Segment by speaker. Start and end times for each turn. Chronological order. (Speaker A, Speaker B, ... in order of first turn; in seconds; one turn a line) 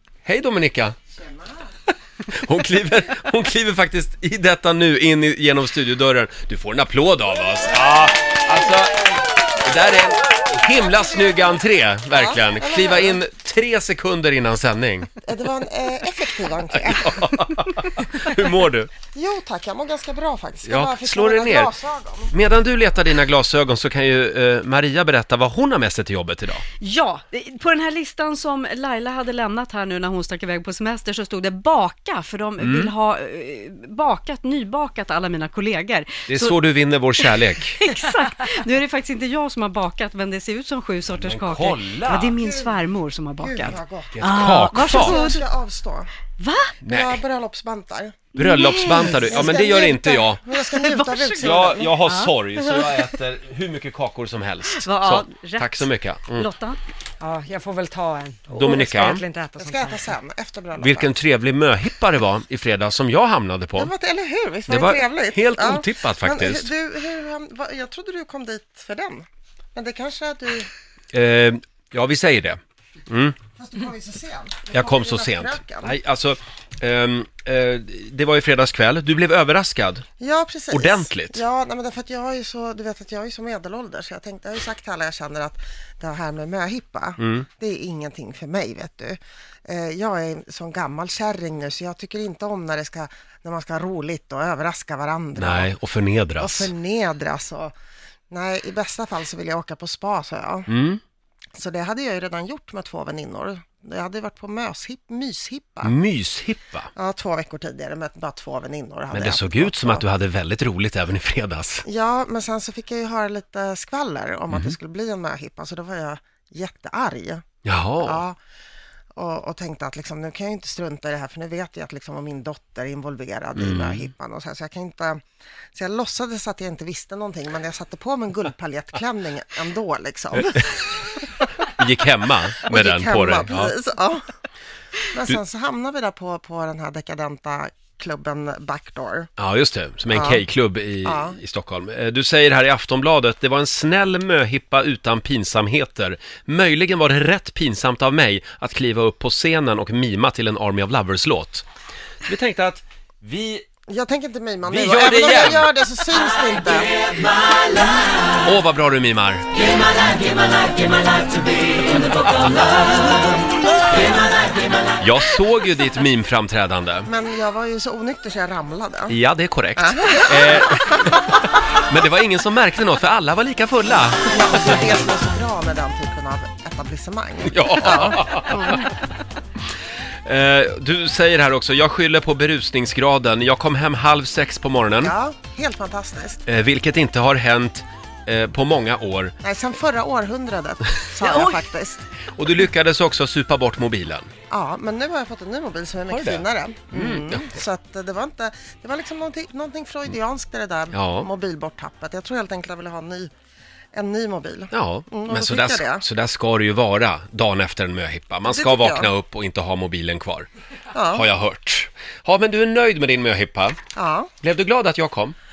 Speaker A: 0.2-0.9
Speaker B: 1.1-1.7
Speaker A: 2.2-15.2
Speaker B: 12.1-13.2
Speaker B: 15.2-17.2
Speaker A: 16.7-18.9
Speaker B: 19.1-22.3
Speaker A: 20.6-21.7
Speaker A: 22.3-26.6
Speaker C: 26.8-36.6
Speaker A: 32.6-32.9
Speaker A: 36.3-37.8
Speaker C: 37.2-45.4
Speaker A: 41.1-42.4
Speaker B: 42.4-42.8
Speaker B: 43.4-46.1
Speaker A: 44.1-45.2
Speaker C: 46.4-46.8
Speaker A: 46.8-47.2
Speaker B: 46.9-48.2
Speaker C: 48.4-49.7
Speaker A: 48.4-50.4
Speaker B: 49.0-51.9
Speaker C: 50.5-53.1
Speaker A: 51.4-56.5
Speaker C: 54.7-57.3
Speaker D: 57.2-59.9
Speaker A: 58.5-59.2
Speaker C: 58.7-59.2
Speaker B: 59.6-61.1
Speaker A: 60.8-63.9
Speaker B: 63.7-70.7
Speaker A: 64.7-66.7
Speaker A: 71.1-73.4
Speaker B: 73.5-76.0
Speaker A: 74.7-80.0
Speaker B: 80.2-95.7
Speaker A: 80.7-81.4
Speaker A: 87.2-87.5
Speaker A: 95.4-96.7
Speaker B: 96.4-97.7
Speaker B: 98.3-100.7
Speaker A: 100.7-101.0
Speaker B: 101.5-105.9
Speaker A: 105.8-106.9
Speaker B: 106.9-110.0
Speaker A: 109.1-111.8
Speaker B: 111.8-117.4
Speaker A: 117.6-118.2
Speaker B: 118.0-118.4
Speaker B: 119.1-125.2
Speaker A: 123.6-124.1
Speaker B: 125.7-131.5
Speaker A: 131.8-133.7
Speaker B: 132.6-134.2
Speaker B: 135.1-139.3
Speaker A: 139.4-151.6
Speaker B: 140.1-140.4
Speaker B: 141.0-141.4
Speaker A: 152.2-153.6
Speaker B: 153.9-156.9
Speaker A: 154.7-155.7
Speaker A: 158.4-159.7
Speaker A: 165.0-167.1
Speaker B: 167.0-169.2
Speaker A: 169.1-174.6
Speaker B: 169.8-171.2
Speaker B: 174.3-178.8
Speaker A: 177.5-178.9
Speaker A: 180.2-185.1
Speaker B: 185.0-186.4
Speaker A: 186.4-189.3
Speaker B: 189.4-192.1
Speaker A: 192.3-194.3
Speaker B: 194.5-203.3
Speaker A: 196.1-197.6
Speaker A: 200.9-201.3
Speaker B: 203.9-206.1
Speaker A: 204.7-210.5
Speaker B: 208.4-209.1
Speaker B: 210.9-211.2
Speaker A: 211.1-213.8
Speaker B: 213.9-214.3
Speaker A: 214.4-215.3